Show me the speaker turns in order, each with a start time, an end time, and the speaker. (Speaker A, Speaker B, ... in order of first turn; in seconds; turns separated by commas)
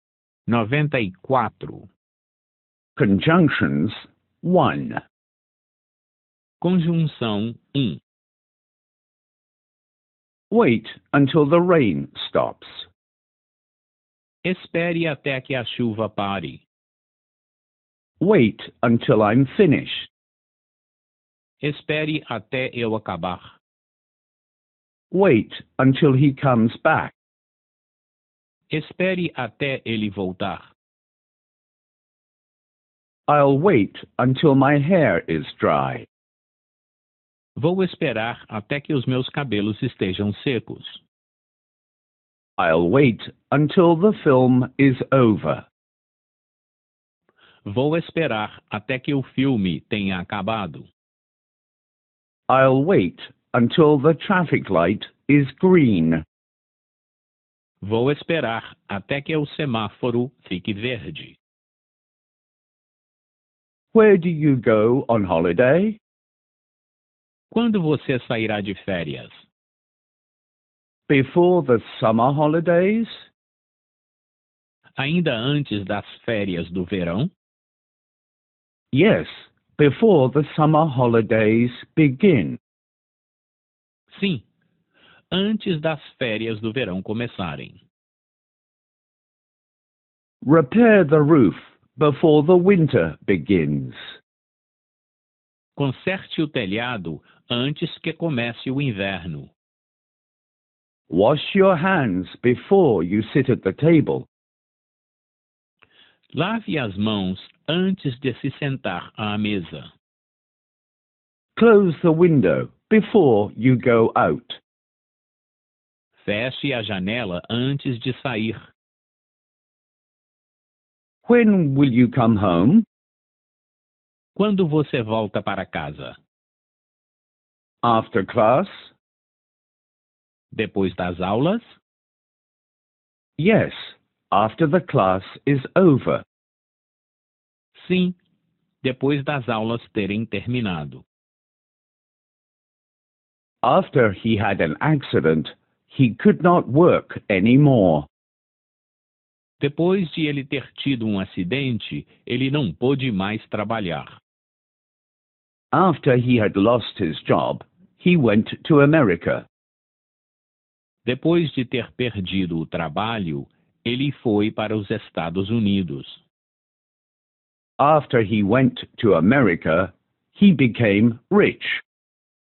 Speaker A: 0.5-1.9, Speaker B: 3.0-5.0, Speaker A: 6.6-8.0, Speaker B: 10.5-12.8, Speaker A: 14.4-16.6, Speaker B: 18.2-20.1, Speaker A: 21.6-23.5, Speaker B: 25.1-27.1, Speaker A: 28.7-30.6, Speaker B: 33.3-36.1, Speaker A: 37.5-41.0, Speaker B: 42.6-45.6, Speaker A: 47.6-50.9, Speaker B: 52.5-56.2, Speaker A: 57.8-61.4, Speaker B: 63.9-66.0, Speaker A: 67.5-69.3, Speaker B: 71.1-73.2, Speaker A: 75.0-77.3, Speaker B: 78.9-82.6, Speaker A: 84.1-84.4, Speaker A: 85.3-87.8, Speaker B: 90.4-94.0, Speaker A: 95.8-99.5, Speaker B: 101.1-104.3, Speaker A: 106.3-109.9, Speaker B: 111.5-114.6, Speaker A: 116.2-118.6, Speaker B: 121.2-122.8, Speaker A: 124.3-126.2, Speaker B: 127.8-128.8, Speaker A: 130.5-131.6, Speaker B: 133.4-136.2, Speaker A: 137.8-138.2, Speaker A: 138.8-141.0, Speaker B: 143.6-148.1, Speaker A: 149.6-154.2, Speaker B: 155.7-159.4, Speaker A: 161.0-166.2, Speaker B: 167.8-171.8